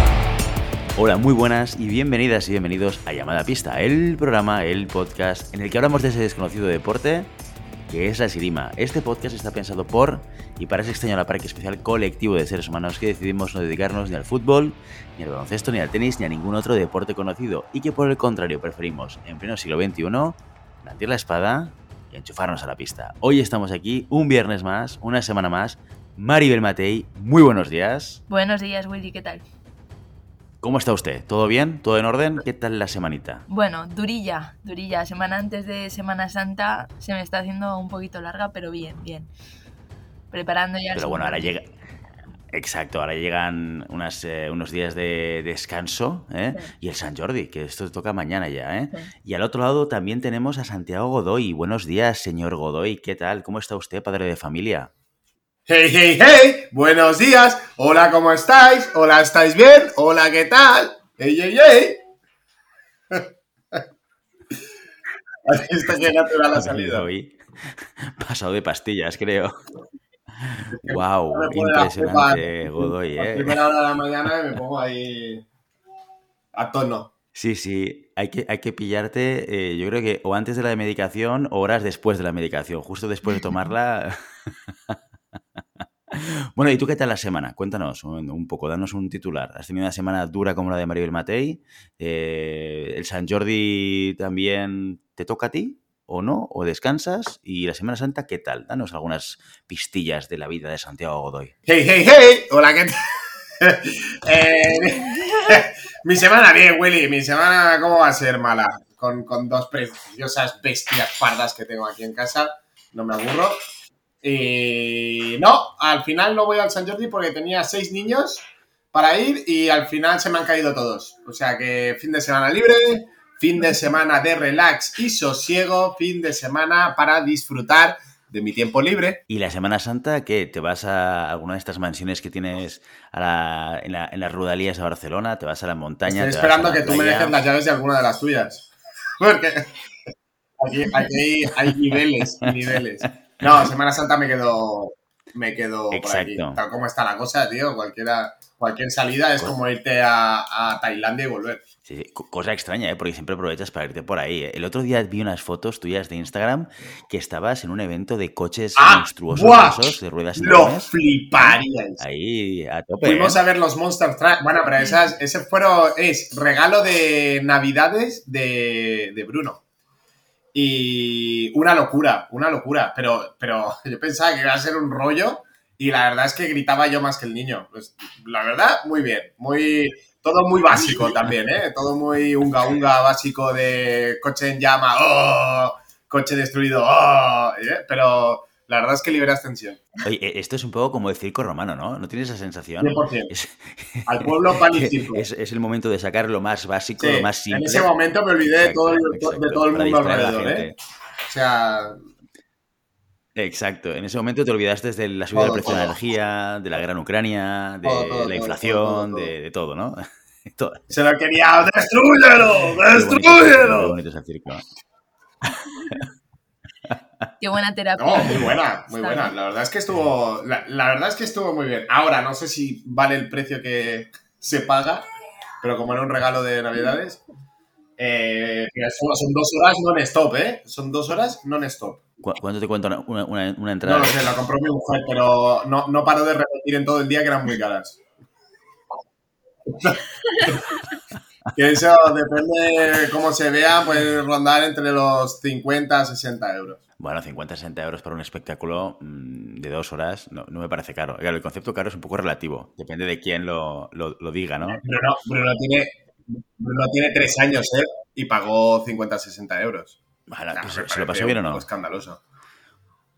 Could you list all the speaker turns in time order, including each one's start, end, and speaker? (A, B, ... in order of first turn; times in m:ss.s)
0:01.0-0:07.3 A
0:07.9-0:28.2 A
0:28.3-0:29.4 B
0:30.6-0:33.4 A
0:33.5-0:39.3 B
0:40.3-0:41.5 B
0:40.9-0:41.7 A
0:42.5-0:54.9 A
0:55.7-1:02.0 C
1:03.1-1:03.8 C
1:05.4-1:07.1 C
1:05.9-1:09.5 A
1:10.4-1:13.6 A
1:10.7-1:15.4 C
1:16.5-1:17.1 C
1:17.3-1:25.0 A
1:26.1-1:41.5 A
1:41.6-1:43.0 C
1:43.6-1:53.6 C
1:54.2-2:09.2 C
2:09.3-2:17.4 A
2:16.1-2:18.7 C
2:19.2-2:31.6 C
2:22.4-2:22.8 A
2:25.9-2:26.6 A
2:31.8-2:43.4 A
2:38.8-2:42.0 C
2:43.0-2:49.6 C
2:44.8-2:45.1 B
2:50.5-3:09.8 C
3:10.0-3:17.9 A
3:12.8-3:13.3 C
3:14.1-3:15.2 C
3:17.0-3:20.7 C
3:18.6-3:20.8 A
3:21.3-3:22.0 C
3:23.4-3:30.9 A
3:25.3-3:26.0 C
3:27.8-3:29.3 C
3:30.9-3:34.0 C
3:32.9-3:34.6 A
3:35.4-3:36.0 A
3:37.4-3:39.3 B
3:38.0-3:45.0 C
3:45.6-3:47.2 C
3:48.0-3:52.0 C
3:52.2-3:54.3 A
3:53.8-3:58.0 C
3:59.7-4:00.8 C
4:01.5-4:06.8 C
4:07.0-4:14.8 A
4:14.7-4:20.0 C
4:20.3-4:21.6 A
4:20.5-4:22.2 C